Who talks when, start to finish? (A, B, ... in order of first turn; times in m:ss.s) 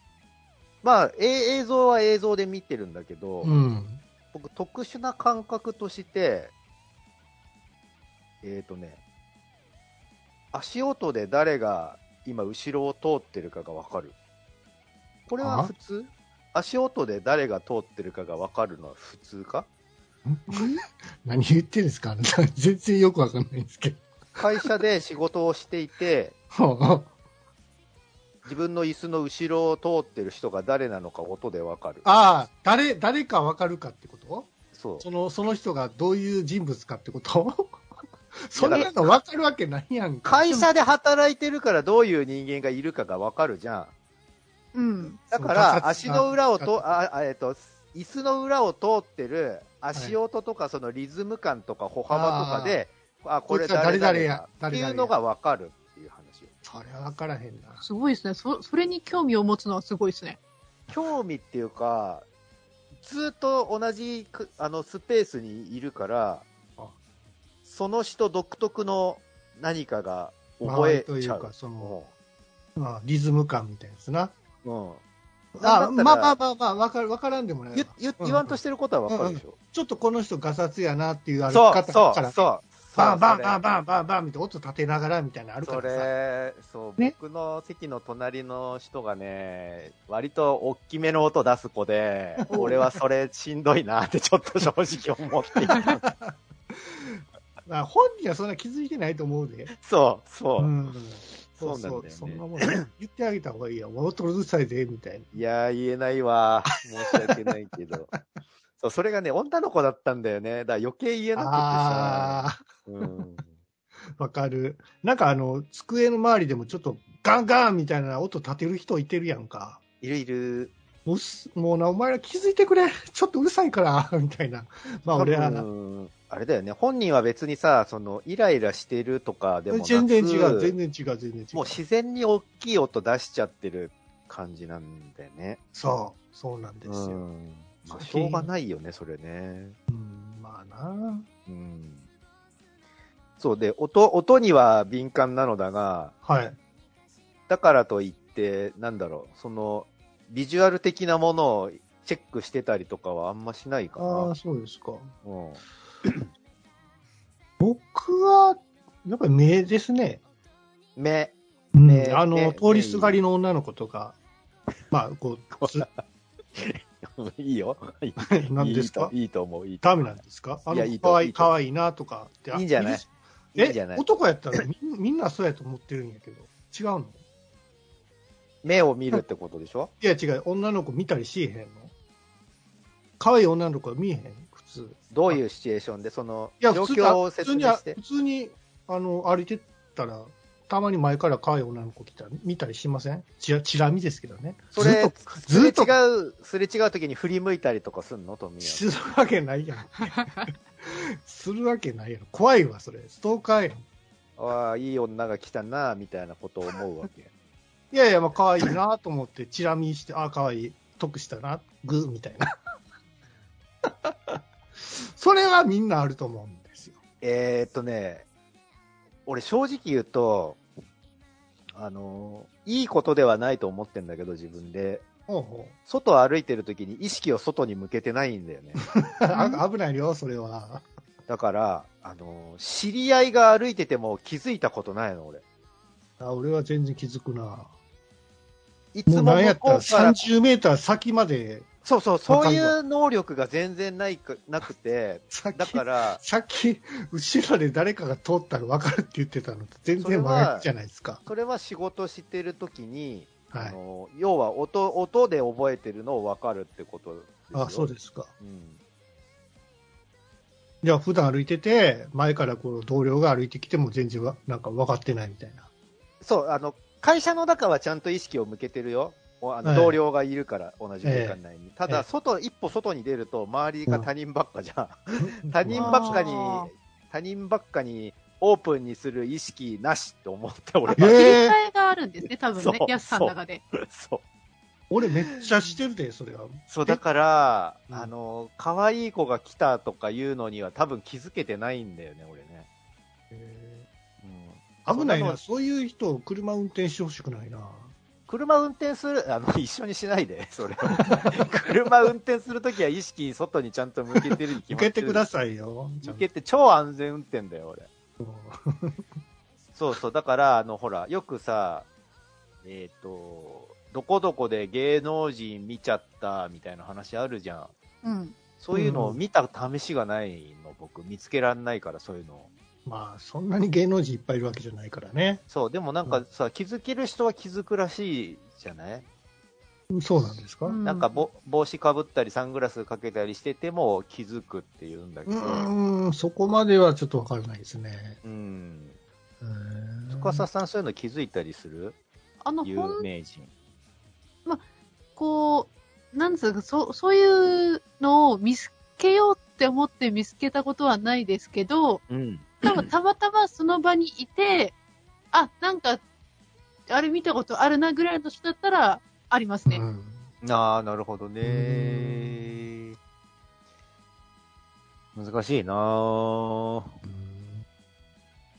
0:00.8-0:03.5 A
0:03.4-0:04.0 B
0:04.3-0:06.5 A
0:08.4-0:09.0 A
0:10.5-0:14.2 A
0:15.3-0:19.7 A
0:15.4-0:15.7 B
0:20.3-0:24.7 B
0:24.4-0:26.4 A
0:26.5-0:27.1 B
0:28.4-0:32.1 A
0:32.0-0:34.5 B
0:34.7-0:35.0 A
0:35.0-0:37.8 B
0:38.4-0:40.5 B
0:38.6-0:39.0 A
0:40.2-0:43.9 A
0:44.7-0:45.2 C
0:45.3-0:56.5 A
0:45.3-0:47.0 B
0:52.1-0:52.8 B
0:53.5-0:55.1 B
0:56.6-0:57.8 B
0:57.8-1:00.4 C
1:00.9-1:02.3 A
1:03.0-1:06.5 A
1:07.6-1:12.1 A
1:10.6-1:12.0 B
1:12.8-1:14.3 B
1:14.6-1:15.0 A
1:15.6-1:22.4 B
1:15.6-1:16.4 A
1:17.7-1:19.6 A
1:21.5-1:23.6 A
1:23.0-1:26.1 B
1:25.6-1:36.0 A
1:32.4-1:33.0 B
1:35.7-1:39.7 B
1:39.8-1:40.7 A
1:40.6-1:45.4 B
1:41.5-1:42.7 A
1:45.3-1:48.1 A
1:47.1-1:47.4 B
1:48.8-1:53.6 A
1:51.4-1:53.1 B
1:54.2-1:59.8 B
2:00.0-2:00.7 A
2:01.1-2:05.7 B
2:05.1-2:10.8 A
2:09.7-2:11.8 B
2:11.5-2:15.6 A
2:15.7-2:17.2 B
2:16.8-2:19.8 A
2:17.9-2:18.5 B
2:19.9-2:21.3 B
2:21.5-2:22.0 A
2:23.4-2:26.1 A
2:26.2-2:26.6 B
2:27.5-2:34.3 A
2:34.0-2:35.1 B
2:35.2-2:36.3 A
2:37.6-2:40.2 B
2:41.0-2:43.2 A
2:41.7-2:44.2 B
2:44.9-2:45.9 B
2:45.6-2:46.0 A
2:46.6-2:51.5 A
2:48.2-2:49.1 B
2:49.8-2:57.2 B
2:52.5-2:54.0 A
2:58.6-2:59.9 A
3:00.0-3:01.9 B
3:03.2-3:05.4 B
3:05.1-3:08.0 A
3:06.6-3:16.0 B
3:14.7-3:18.9 A
3:18.6-3:20.2 B
3:20.8-3:23.8 B
3:24.4-3:27.3 A
3:27.9-3:32.5 B
3:33.8-3:37.0 B
3:37.2-3:38.3 A
3:39.3-3:40.6 A
3:41.8-3:45.0 A
3:45.3-3:45.8 B
3:45.9-3:49.0 A
3:49.1-3:50.8 B
3:49.3-3:49.6 C
3:51.3-3:55.4 A
3:56.2-3:57.7 B
3:58.9-4:00.3 A
3:59.1-4:01.7 B
4:01.8-4:06.2 A
4:02.3-4:02.8 B
4:05.3-4:11.2 B
4:10.0-4:10.7 A
4:11.2-4:18.8 A
4:13.5-4:13.8 B
4:17.5-4:18.3 B
4:20.8-4:25.7 B
4:26.2-4:41.3 A
4:29.6-4:30.0 B
4:31.0-4:32.0 B
4:35.2-4:36.2 B
4:35.8-4:36.7 C
4:41.0-4:41.6 B
4:41.0-4:43.6 C
4:42.6-4:44.2 A
4:44.9-4:47.0 B
4:46.7-4:52.7 A
4:53.3-4:53.9 B
4:54.2-4:55.4 A
4:54.8-4:57.9 B
4:58.3-5:05.3 A
5:04.7-5:06.3 B
5:06.0-5:07.9 A
5:08.2-5:09.1 B
5:09.8-5:11.9 A
5:12.6-5:17.7 A
5:18.0-5:18.4 C
5:18.6-5:22.5 A
5:18.7-5:19.2 B
5:22.8-5:25.4 B
5:25.5-5:29.1 A
5:29.9-5:30.8 B
5:30.6-5:31.1 C
5:30.8-5:35.7 A
5:35.3-5:38.2 B
5:38.2-5:39.0 A
5:39.4-5:40.4 B
5:40.1-5:42.0 A
5:42.4-5:43.0 C
5:42.6-5:43.5 A
5:45.2-5:52.0 C
5:52.1-5:52.9 A
5:52.6-5:54.8 C
5:55.3-5:56.0 C
5:56.9-5:59.8 C
5:59.7-6:00.3 B
6:00.4-6:03.0 A
6:01.4-6:02.6 B
6:05.2-6:07.0 A
6:07.0-6:07.6 B